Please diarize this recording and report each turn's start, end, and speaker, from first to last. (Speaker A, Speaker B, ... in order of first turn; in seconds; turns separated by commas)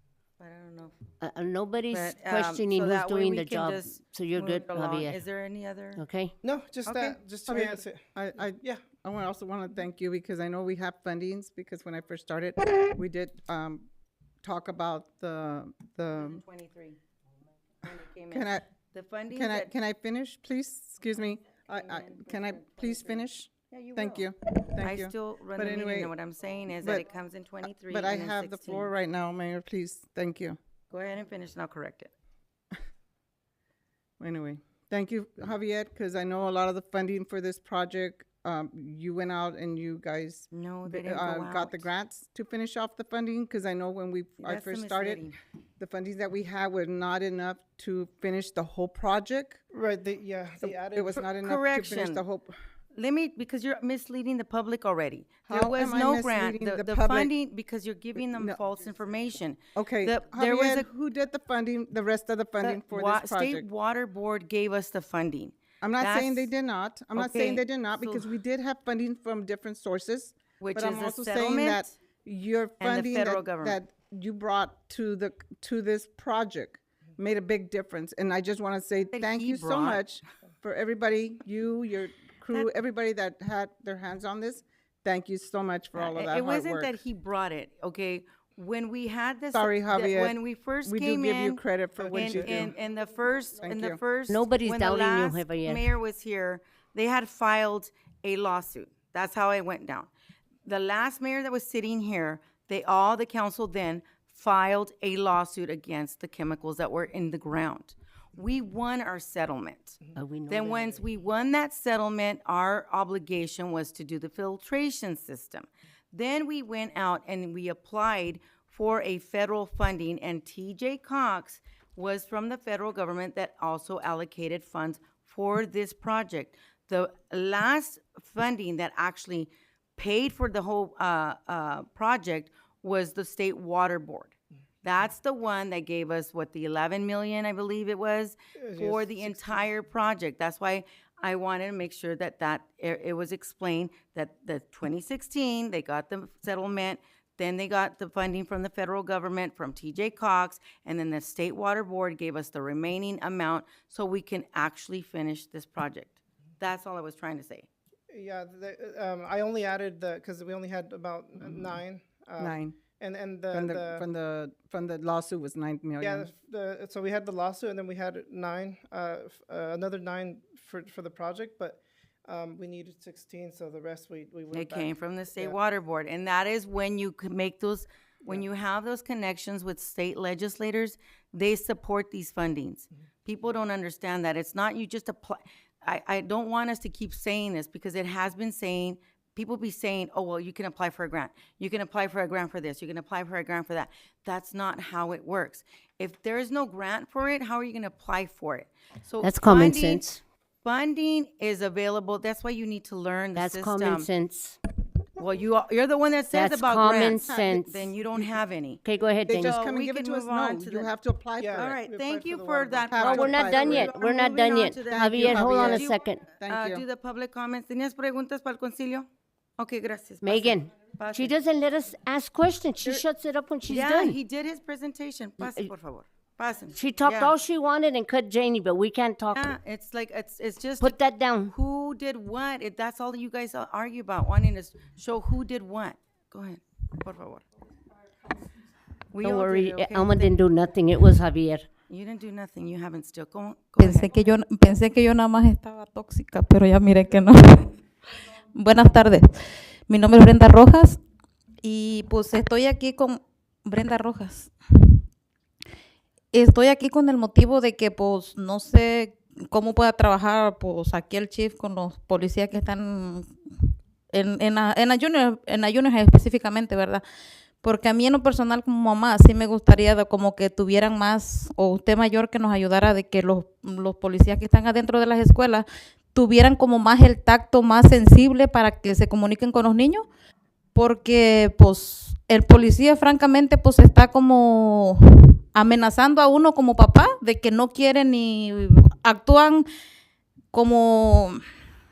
Speaker A: 0.4-0.9, Speaker B: 1.2-5.2, Speaker A: 1.9-6.0, Speaker B: 6.0-6.3, Speaker C: 6.4-8.0, Speaker D: 6.8-13.8, Speaker D: 14.4-16.4, Speaker A: 16.1-17.0, Speaker A: 17.8-19.7, Speaker D: 18.3-18.7, Speaker D: 19.3-26.1, Speaker A: 21.7-28.9, Speaker D: 26.8-27.0, Speaker D: 27.8-30.6, Speaker A: 30.9-32.1, Speaker D: 34.2-45.2, Speaker A: 40.5-41.9, Speaker A: 44.4-45.4, Speaker D: 45.8-49.6, Speaker C: 49.7-51.1, Speaker D: 50.6-52.6, Speaker A: 51.4-52.2, Speaker A: 52.9-60.9, Speaker D: 55.5-57.3, Speaker D: 58.3-58.6, Speaker D: 59.7-63.7, Speaker A: 62.6-66.5, Speaker D: 65.8-87.0, Speaker A: 67.2-68.3, Speaker A: 70.6-71.9, Speaker A: 72.8-73.8, Speaker A: 79.1-80.0, Speaker A: 85.9-91.6, Speaker D: 89.5-92.7, Speaker C: 92.0-92.6, Speaker A: 92.1-100.1, Speaker D: 93.6-94.0, Speaker B: 94.3-95.8, Speaker A: 100.6-157.7, Speaker B: 110.2-111.0, Speaker C: 138.6-139.6, Speaker C: 158.1-164.0, Speaker D: 162.4-162.8, Speaker D: 163.5-166.3, Speaker C: 166.0-175.6, Speaker A: 174.5-200.1, Speaker B: 199.2-200.2, Speaker A: 200.6-204.1, Speaker B: 203.3-204.6, Speaker A: 205.2-210.9, Speaker B: 206.3-207.9, Speaker D: 207.3-207.5, Speaker B: 208.8-209.6, Speaker D: 209.3-211.7, Speaker C: 211.4-212.9, Speaker A: 211.5-219.1, Speaker D: 212.9-213.9, Speaker B: 213.0-216.2, Speaker D: 214.8-216.8, Speaker A: 219.6-221.3, Speaker B: 220.2-224.2, Speaker A: 223.7-227.3, Speaker B: 225.4-225.7, Speaker B: 226.7-229.5, Speaker A: 229.3-237.4, Speaker B: 230.8-231.5, Speaker A: 239.1-240.4, Speaker B: 239.2-241.7, Speaker A: 241.9-244.2, Speaker E: 243.8-247.8, Speaker E: 248.4-251.0, Speaker E: 251.6-255.0, Speaker E: 256.3-267.0, Speaker E: 267.6-280.1, Speaker E: 280.7-289.6, Speaker E: 290.5-291.4